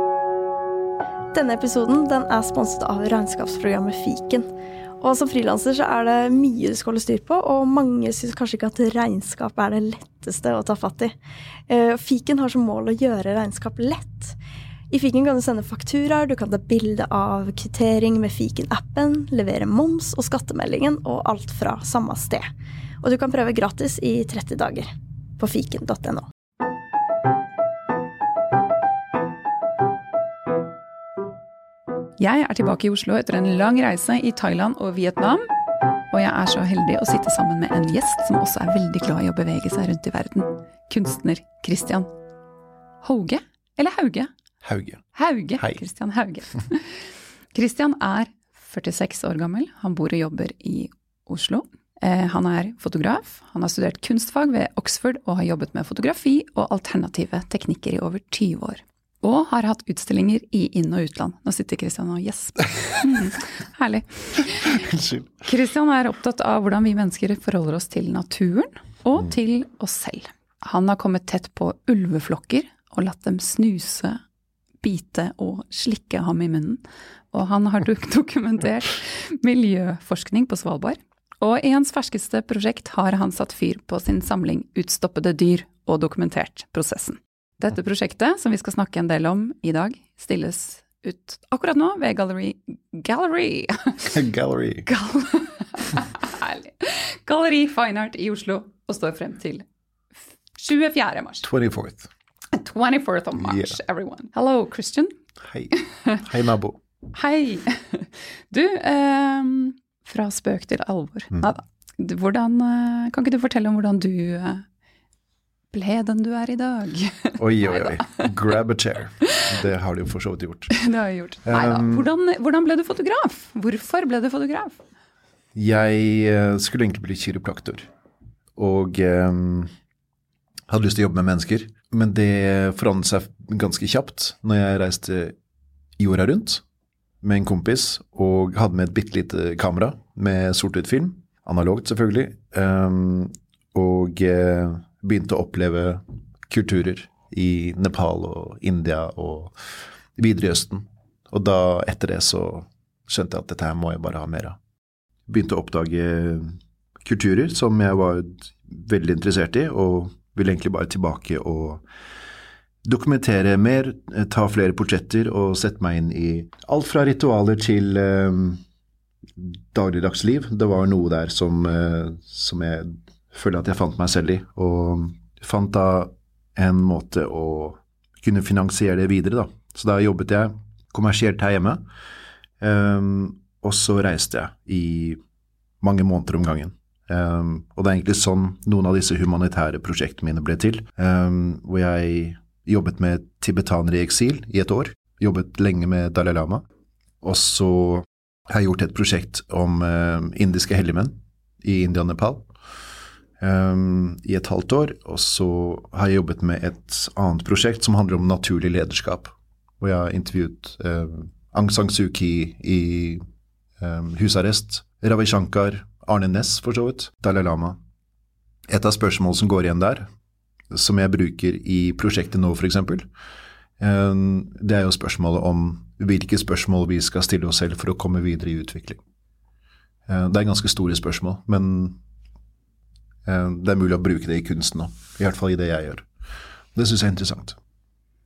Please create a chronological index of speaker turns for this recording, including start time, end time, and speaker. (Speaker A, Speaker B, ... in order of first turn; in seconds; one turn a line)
Speaker A: 1.3-4.5
Speaker A: 5.0-11.1
Speaker A: 11.7-14.4
Speaker A: 14.9-22.5
Speaker A: 23.0-26.3
Speaker B: 32.2-35.4
Speaker B: 36.1-42.1
Speaker B: 43.0-44.3
Speaker C: 44.6-45.0
Speaker B: 45.1-64.9
Speaker C: 64.8-65.3
Speaker B: 65.4-74.2
Speaker B: 74.8-94.2
Speaker C: 94.1-94.9
Speaker B: 94.9-99.7
Speaker B: 100.6-101.5
Speaker C: 101.4-102.1
Speaker B: 102.5-105.1
Speaker C: 103.4-103.8
Speaker C: 105.4-106.8
Speaker B: 105.8-106.2
Speaker B: 107.1-114.7
Speaker B: 115.7-118.3
Speaker C: 117.4-120.7
Speaker B: 120.7-124.8
Speaker C: 121.5-122.1
Speaker C: 125.5-127.9
Speaker C: 128.6-129.7
Speaker C: 130.7-135.3
Speaker C: 136.0-136.6
Speaker C: 137.2-154.6
Speaker C: 155.3-161.8
Speaker C: 162.8-168.6
Speaker C: 169.3-181.8
Speaker C: 182.6-185.2
Speaker C: 185.8-196.6
Speaker C: 197.2-202.5
Speaker C: 203.4-213.2
Speaker C: 213.8-217.8
Speaker C: 218.7-220.1
Speaker C: 220.7-223.1
Speaker C: 223.8-229.0
Speaker C: 230.1-232.0
Speaker C: 233.2-236.1
Speaker C: 236.7-237.6